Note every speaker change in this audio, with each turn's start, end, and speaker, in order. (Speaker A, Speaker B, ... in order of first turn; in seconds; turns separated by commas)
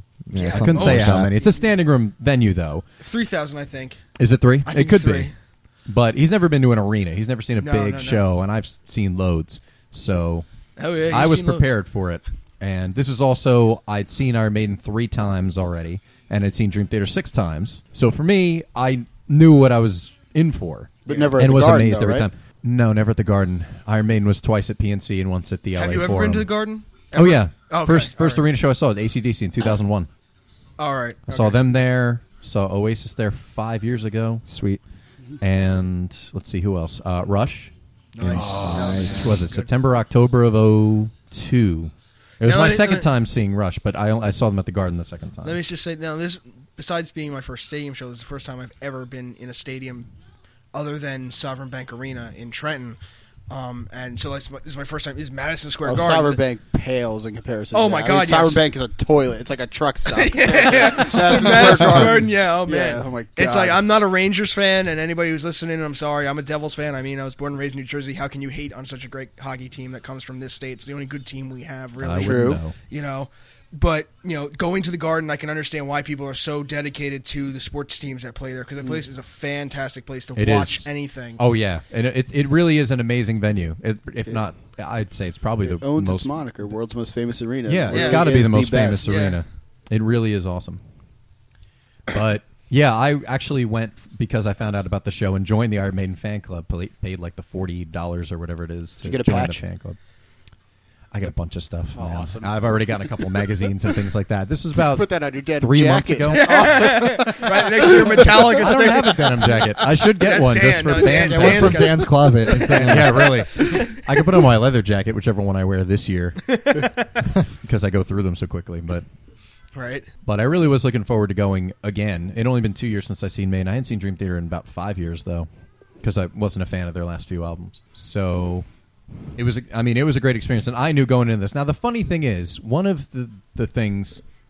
Speaker A: 0.3-1.3, Speaker B: 0.3-1.4, Speaker C: 0.5-2.8, Speaker B: 3.0-4.0, Speaker C: 4.2-5.3, Speaker B: 4.7-5.3, Speaker C: 5.9-10.5, Speaker B: 7.6-8.2, Speaker B: 10.8-11.7, Speaker C: 11.1-26.5, Speaker D: 21.1-22.3, Speaker B: 21.1-21.4, Speaker B: 25.8-28.5, Speaker C: 27.1-30.1, Speaker B: 30.8-31.6, Speaker C: 31.3-34.5, Speaker A: 34.5-34.8, Speaker C: 35.4-45.6, Speaker B: 38.1-39.6, Speaker A: 38.3-39.4, Speaker B: 42.4-43.1, Speaker B: 45.4-50.1, Speaker B: 50.7-53.0, Speaker B: 53.5-56.4, Speaker D: 55.8-63.8, Speaker B: 57.7-58.6, Speaker B: 60.1-81.4, Speaker C: 72.0-72.8, Speaker D: 72.2-72.6, Speaker C: 80.3-86.3, Speaker D: 85.6-89.1, Speaker C: 87.7-90.8, Speaker B: 87.9-88.4, Speaker B: 89.0-89.4, Speaker C: 92.1-100.0, Speaker D: 99.0-99.6, Speaker C: 101.1-107.2, Speaker D: 102.0-103.3, Speaker D: 104.8-108.6, Speaker B: 106.3-109.5, Speaker C: 108.3-116.5, Speaker B: 110.2-114.0, Speaker D: 111.0-112.8, Speaker A: 111.3-113.3, Speaker B: 116.5-117.1, Speaker C: 117.6-119.0, Speaker B: 119.8-120.1, Speaker C: 120.2-125.5, Speaker C: 126.0-128.7, Speaker C: 129.4-134.2